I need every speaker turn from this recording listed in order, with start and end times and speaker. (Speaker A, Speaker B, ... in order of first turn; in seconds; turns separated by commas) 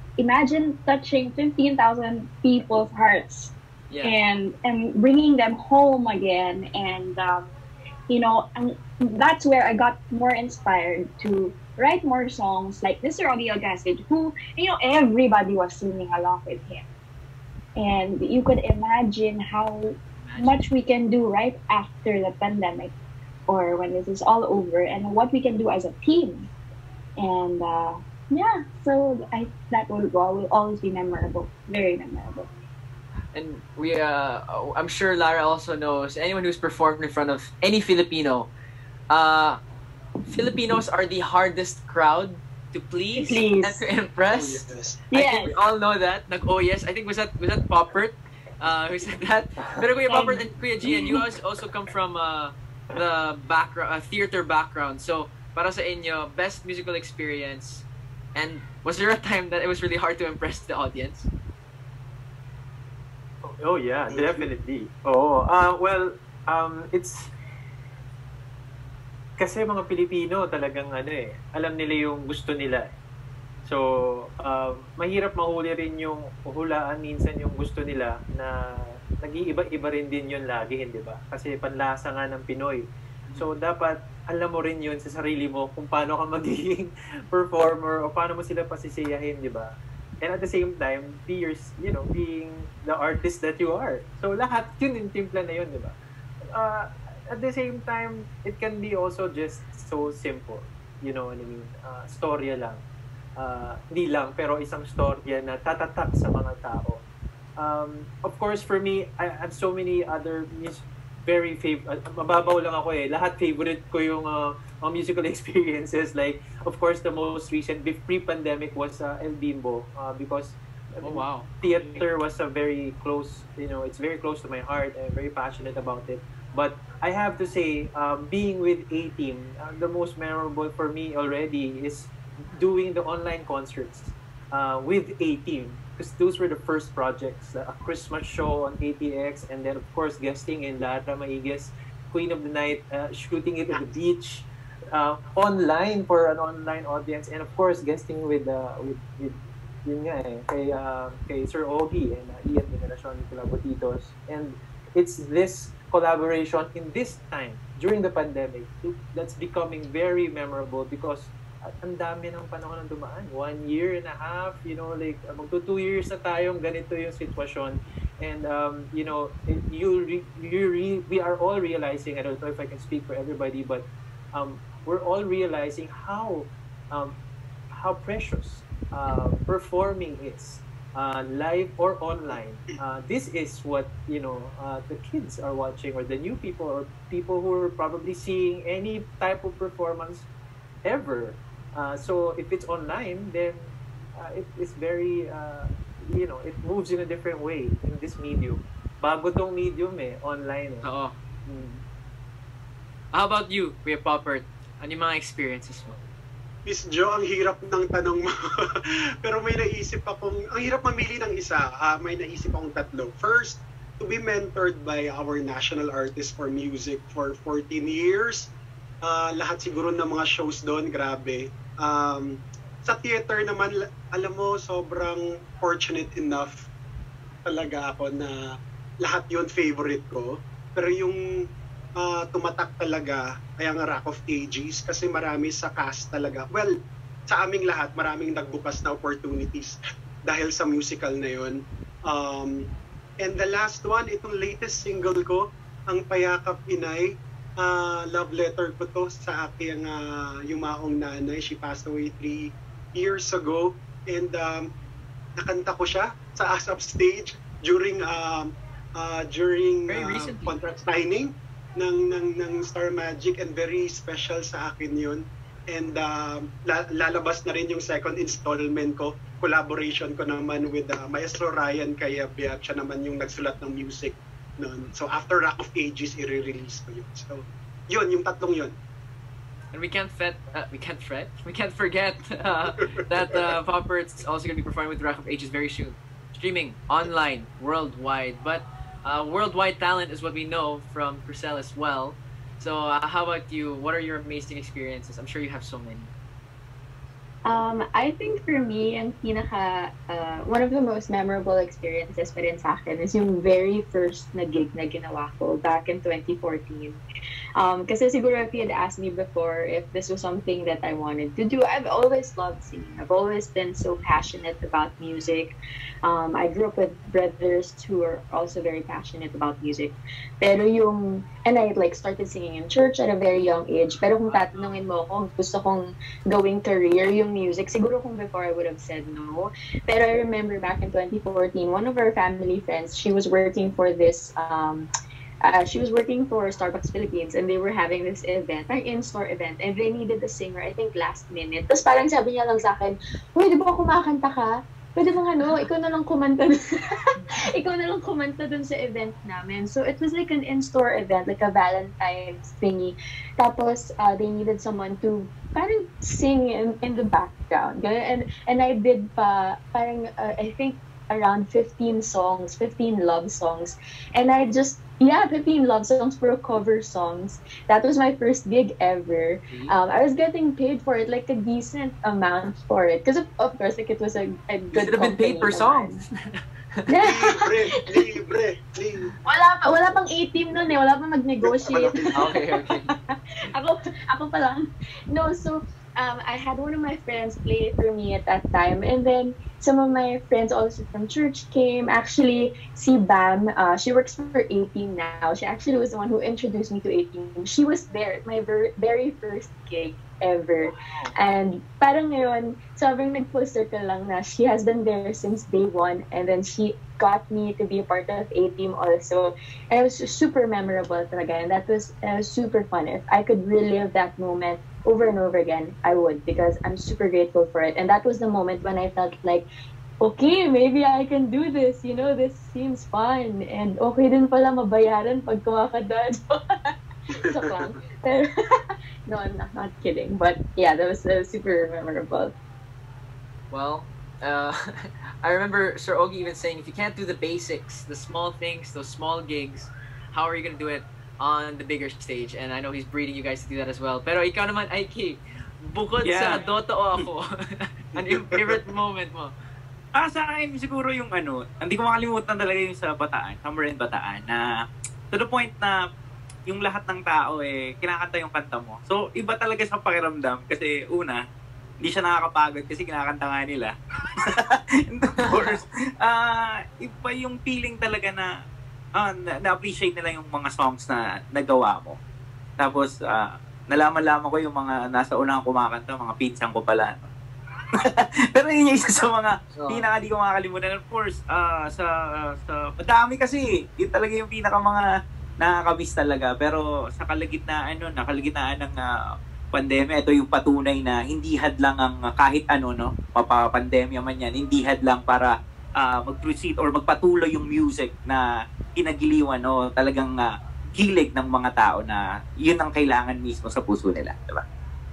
Speaker A: 0.2-7.5, Speaker B: 3.9-4.1, Speaker A: 8.1-16.8, Speaker A: 17.8-22.9, Speaker B: 20.2-20.6, Speaker A: 23.5-26.5, Speaker A: 27.2-32.5, Speaker B: 33.3-38.5, Speaker B: 39.1-39.6, Speaker B: 40.3-61.3, Speaker A: 43.1-43.8, Speaker C: 44.3-45.0, Speaker A: 45.1-45.5, Speaker A: 50.1-50.4, Speaker D: 63.5-67.3, Speaker C: 64.1-64.5, Speaker D: 69.4-72.9, Speaker D: 73.6-95.9, Speaker D: 96.5-102.8, Speaker D: 103.4-107.0, Speaker D: 107.6-177.2, Speaker B: 121.0-122.0, Speaker D: 177.7-190.2, Speaker D: 190.8-200.9, Speaker B: 200.8-201.8, Speaker B: 203.1-206.0, Speaker C: 206.7-208.7, Speaker C: 209.2-218.5, Speaker C: 219.0-226.6, Speaker C: 227.4-228.3, Speaker C: 229.0-231.2, Speaker C: 232.0-236.7, Speaker C: 237.3-242.6, Speaker C: 243.2-254.7, Speaker C: 255.4-278.7, Speaker B: 259.9-260.6, Speaker B: 279.7-296.1, Speaker E: 297.4-307.0, Speaker E: 307.6-334.9, Speaker E: 335.4-376.0, Speaker B: 374.7-376.9, Speaker E: 376.9-378.2, Speaker C: 377.0-379.1, Speaker E: 379.2-419.4, Speaker C: 381.4-382.3, Speaker B: 382.1-382.9, Speaker B: 400.6-401.1, Speaker E: 420.0-426.7, Speaker E: 427.2-432.3, Speaker C: 427.3-427.7, Speaker B: 433.5-449.3, Speaker F: 446.0-446.4, Speaker C: 448.0-448.6, Speaker F: 450.0-454.4, Speaker F: 455.1-455.8, Speaker F: 456.5-461.2, Speaker F: 461.8-468.3, Speaker B: 465.2-465.5, Speaker F: 469.0-471.9, Speaker F: 472.6-477.1, Speaker F: 477.8-484.8, Speaker B: 479.5-479.8, Speaker F: 485.4-488.9, Speaker F: 489.5-498.2, Speaker F: 498.8-504.4